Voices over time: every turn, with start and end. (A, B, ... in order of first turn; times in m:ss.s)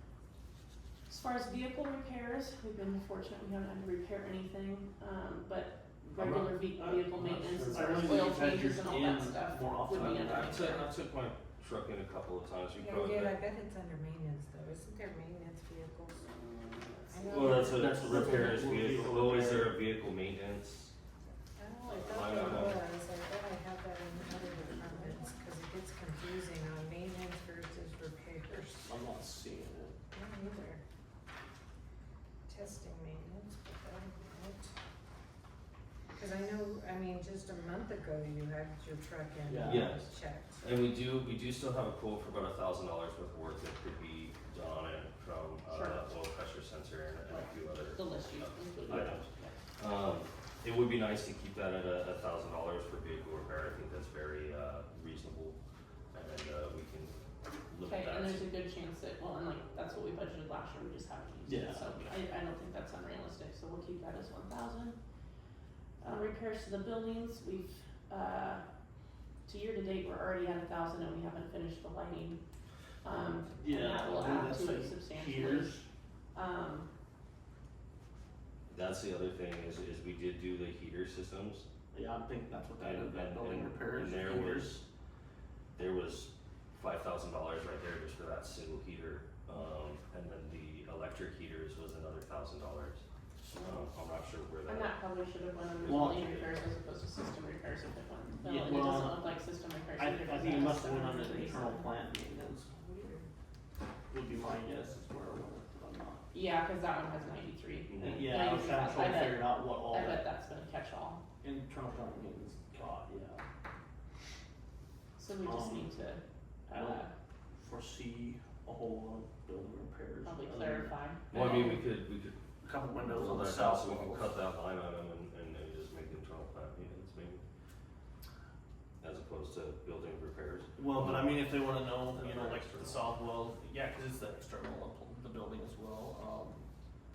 0:01.1-0:10.9 A
0:06.0-0:10.6 B
0:07.7-0:08.1 C
0:09.9-0:13.4 C
0:12.8-0:16.3 D
0:16.3-0:17.6 A
0:17.1-0:18.4 D
0:17.3-0:20.9 C
0:17.6-0:19.8 B
0:21.6-0:29.0 D
0:21.9-0:22.8 C
0:28.8-0:30.0 B
0:30.1-0:30.8 D
0:32.5-0:34.7 D
0:36.2-0:40.6 D
0:39.5-0:39.9 B
0:39.7-0:40.1 C
0:40.6-0:55.6 C
0:45.7-0:46.0 A
0:47.3-0:49.6 A
0:56.1-0:57.2 C
0:57.7-0:58.5 C
0:57.8-1:05.0 A
1:01.5-1:01.8 B
1:06.0-1:08.6 A
1:09.5-1:12.4 A
1:13.0-1:15.7 A
1:13.6-1:15.9 B
1:16.3-1:16.9 A
1:18.7-1:21.7 C
1:21.9-1:24.8 B
1:22.8-1:24.8 C
1:25.8-1:34.9 C
1:33.5-1:33.8 A
1:34.7-1:41.8 A
1:35.8-1:36.7 C
1:35.9-1:36.3 B
1:38.4-1:39.2 B
1:40.0-1:42.8 B
1:42.8-1:43.2 D
1:44.1-1:46.2 B
1:46.3-1:51.2 A
1:47.9-1:48.3 C
1:48.0-1:50.2 B
1:51.4-1:53.4 B
1:55.2-1:57.1 A
1:55.4-1:55.9 B
1:56.7-1:57.0 B
1:57.6-2:00.9 B
2:00.2-2:01.8 A
2:01.3-2:02.4 C
2:02.6-2:04.3 B
2:03.0-2:07.4 C
2:09.0-2:11.4 C
2:10.8-2:16.7 B
2:11.9-2:13.1 C